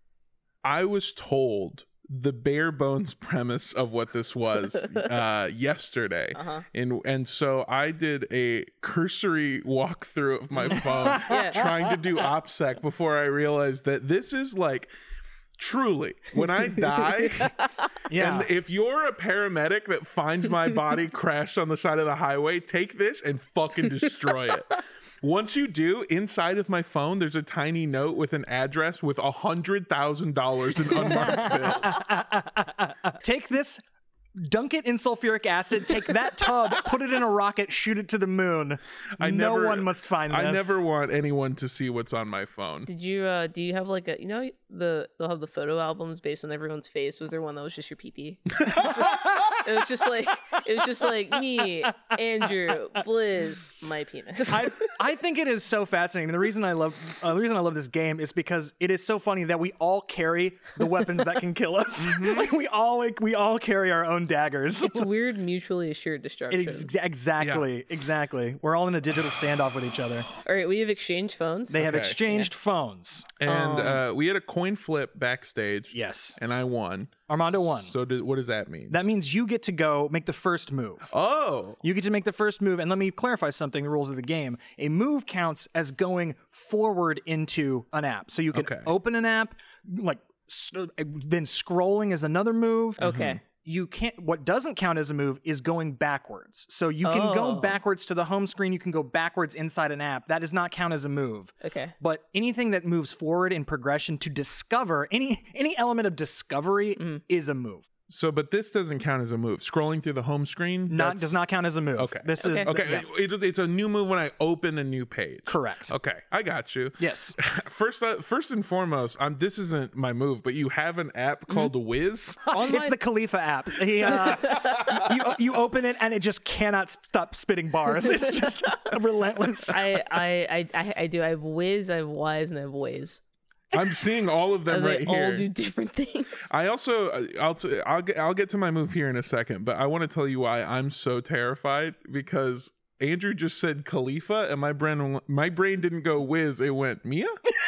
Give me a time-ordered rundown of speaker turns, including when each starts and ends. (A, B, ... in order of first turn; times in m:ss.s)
0:00.6-0:14.9 A
0:06.3-0:06.6 B
0:10.6-0:11.7 B
0:11.0-0:11.4 C
0:15.6-0:17.5 A
0:18.1-0:18.5 C
0:18.1-0:32.0 A
0:31.0-0:33.8 C
0:34.4-0:40.8 C
0:39.2-0:42.9 A
0:42.9-0:55.0 B
0:48.7-0:49.0 A
0:48.7-0:49.6 C
0:54.5-1:05.1 C
1:02.0-1:02.5 A
1:04.8-1:06.9 B
1:06.5-1:10.3 C
1:07.4-1:07.7 A
1:10.4-1:12.5 B
1:11.7-1:13.4 C
1:11.8-1:12.2 A
1:13.4-1:19.0 A
1:13.4-1:14.0 B
1:15.9-1:16.4 C
1:17.3-1:17.9 C
1:18.9-1:21.1 C
1:21.1-1:21.8 A
1:21.8-1:47.9 C
1:28.5-1:28.9 A
1:33.0-1:33.4 B
1:33.0-1:33.4 A
1:37.0-1:37.8 B
1:41.6-1:41.9 B
1:48.1-1:51.4 A
1:50.9-1:53.1 C
1:52.0-2:02.6 A
1:52.4-1:52.7 B
1:55.5-1:55.9 C
1:57.0-1:57.4 C
2:02.5-2:03.0 B
2:02.5-2:09.8 C
2:04.4-2:05.0 B
2:09.7-2:13.2 B
2:13.7-2:15.5 A
2:14.7-2:16.5 B
2:16.5-2:27.4 A